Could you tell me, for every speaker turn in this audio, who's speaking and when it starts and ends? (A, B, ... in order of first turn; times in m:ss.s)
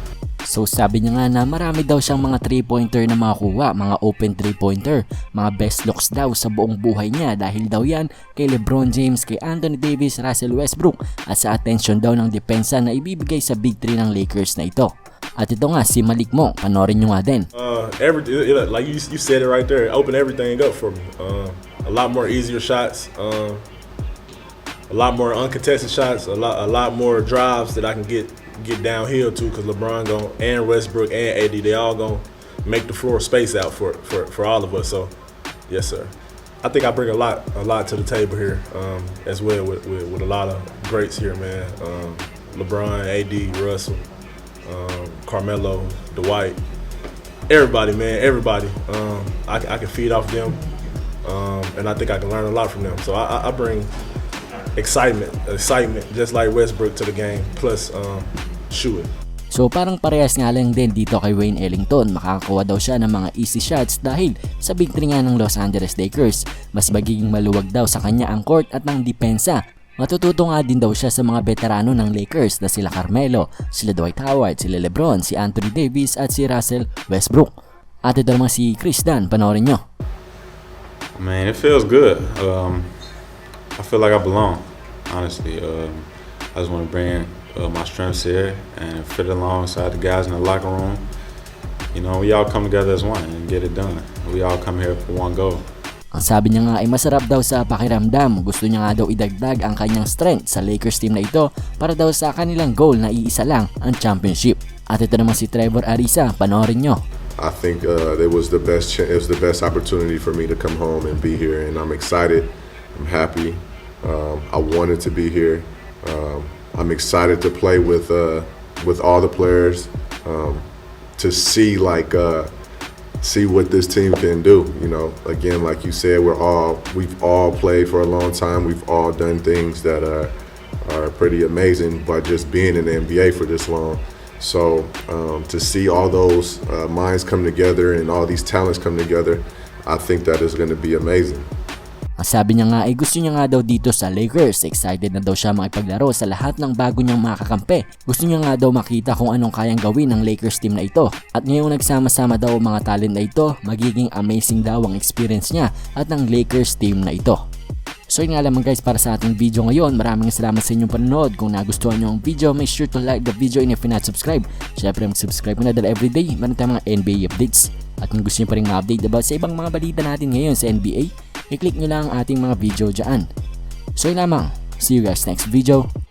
0:00.4-0:17.5 A
0:17.5-0:23.6 B
0:24.9-0:35.1 B
0:35.7-0:44.0 B
0:44.7-0:46.6 B
0:47.5-0:50.6 B
0:51.2-0:53.9 B
0:54.8-0:59.1 B
0:59.5-1:17.5 A
1:18.0-1:19.8 A
1:21.2-1:23.1 C
1:23.8-1:31.0 C
1:31.9-1:35.7 C
1:36.1-1:47.0 A
1:47.4-2:00.7 D
2:01.2-2:02.5 D
2:03.2-2:10.3 D
2:10.8-2:21.5 D
2:22.2-2:37.4 A
2:38.1-2:53.3 A
2:54.0-2:55.9 A